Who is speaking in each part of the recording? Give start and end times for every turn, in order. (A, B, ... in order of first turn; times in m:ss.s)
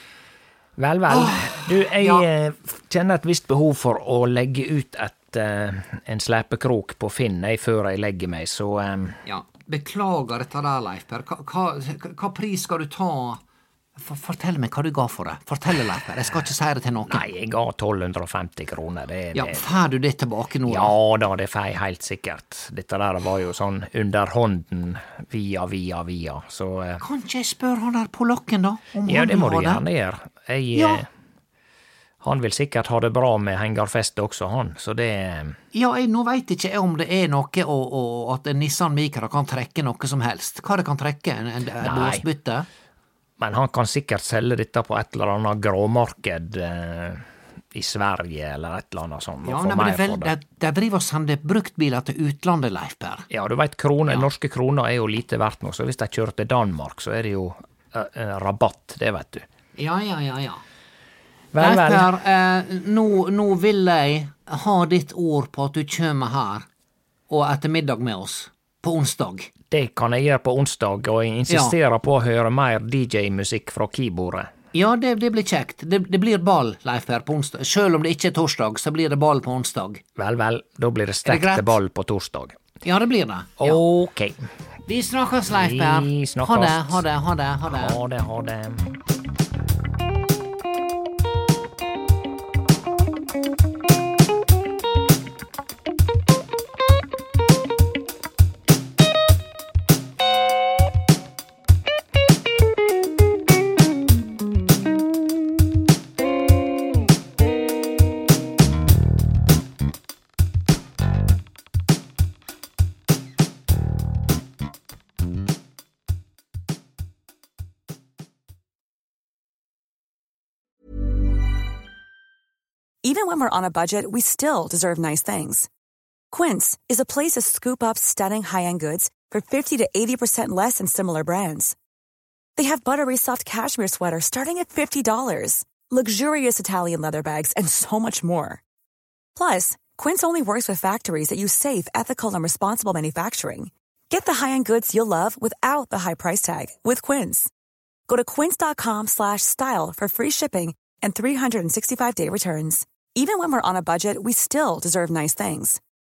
0:00.8-0:09.2 A
0:01.1-0:02.3 B
0:09.3-0:13.4 B
0:14.0-0:17.3 B
0:17.1-0:19.6 A
0:19.4-0:20.9 B
0:20.7-0:27.0 A
0:27.0-0:29.8 B
0:29.1-0:31.1 A
0:30.8-0:31.0 B
0:32.2-0:35.6 A
0:35.7-0:42.7 B
0:41.8-0:42.2 A
0:43.4-0:47.2 A
0:47.7-0:50.3 A
0:49.4-0:53.3 B
0:53.3-0:59.5 A
0:59.8-1:00.6 B
1:01.5-1:02.1 A
1:01.6-1:06.7 B
1:07.3-1:09.5 B
1:09.7-1:14.5 A
1:11.5-1:11.8 B
1:14.7-1:20.0 B
1:20.2-1:22.6 A
1:21.3-1:21.8 B
1:22.8-1:23.8 B
1:23.6-1:24.4 A
1:24.9-1:28.0 B
1:25.5-1:27.0 A
1:27.6-1:29.0 A
2:03.0-2:05.7 C
2:06.3-2:11.8 C
2:12.6-2:18.6 C
2:19.4-2:27.5 C
2:28.1-2:35.8 C